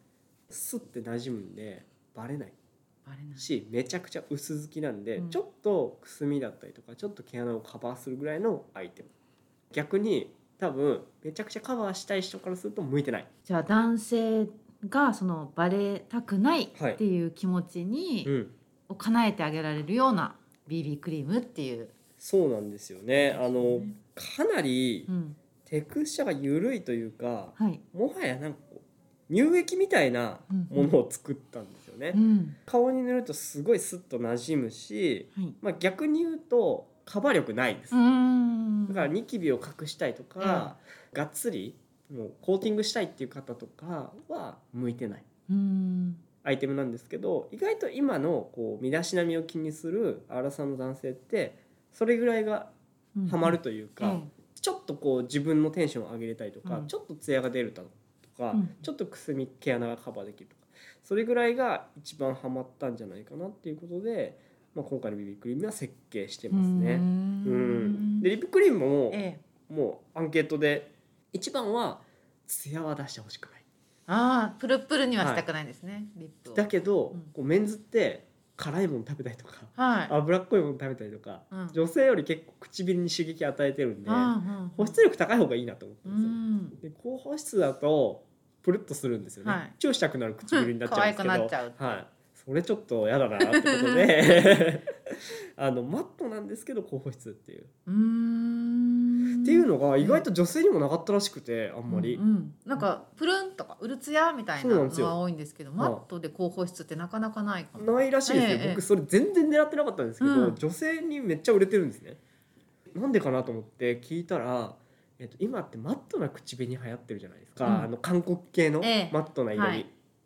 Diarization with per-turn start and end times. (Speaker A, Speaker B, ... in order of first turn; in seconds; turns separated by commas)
Speaker A: 0.5-2.6, Speaker B: 3.0-3.5, Speaker A: 3.4-9.1, Speaker A: 9.7-13.3, Speaker B: 13.5-18.3, Speaker A: 16.8-17.0, Speaker A: 18.3-18.5, Speaker B: 18.9-21.9, Speaker A: 22.2-25.1, Speaker B: 23.1-24.0, Speaker B: 25.1-25.4, Speaker A: 25.6-38.0, Speaker B: 27.6-27.8, Speaker B: 30.5-30.9, Speaker B: 32.1-32.6, Speaker B: 37.9-39.1, Speaker A: 38.9-45.2, Speaker B: 40.4-40.7, Speaker B: 45.5-46.2, Speaker A: 46.4-52.7, Speaker B: 53.2-54.3, Speaker A: 53.3-73.6, Speaker B: 56.6-56.9, Speaker B: 58.5-58.8, Speaker B: 66.5-68.3, Speaker B: 69.1-69.4, Speaker B: 74.1-77.3, Speaker A: 75.2-75.4, Speaker A: 76.5-97.7, Speaker B: 79.8-80.2, Speaker B: 81.5-81.8, Speaker B: 84.1-85.0, Speaker B: 86.1-86.8, Speaker B: 89.4-89.7, Speaker B: 90.5-92.0, Speaker B: 93.4-94.2, Speaker B: 97.9-100.2, Speaker A: 99.4-102.2, Speaker B: 101.9-108.8, Speaker A: 104.6-105.2, Speaker A: 107.8-112.2, Speaker B: 110.2-110.6, Speaker A: 112.9-119.9, Speaker B: 117.6-117.9, Speaker B: 118.8-119.9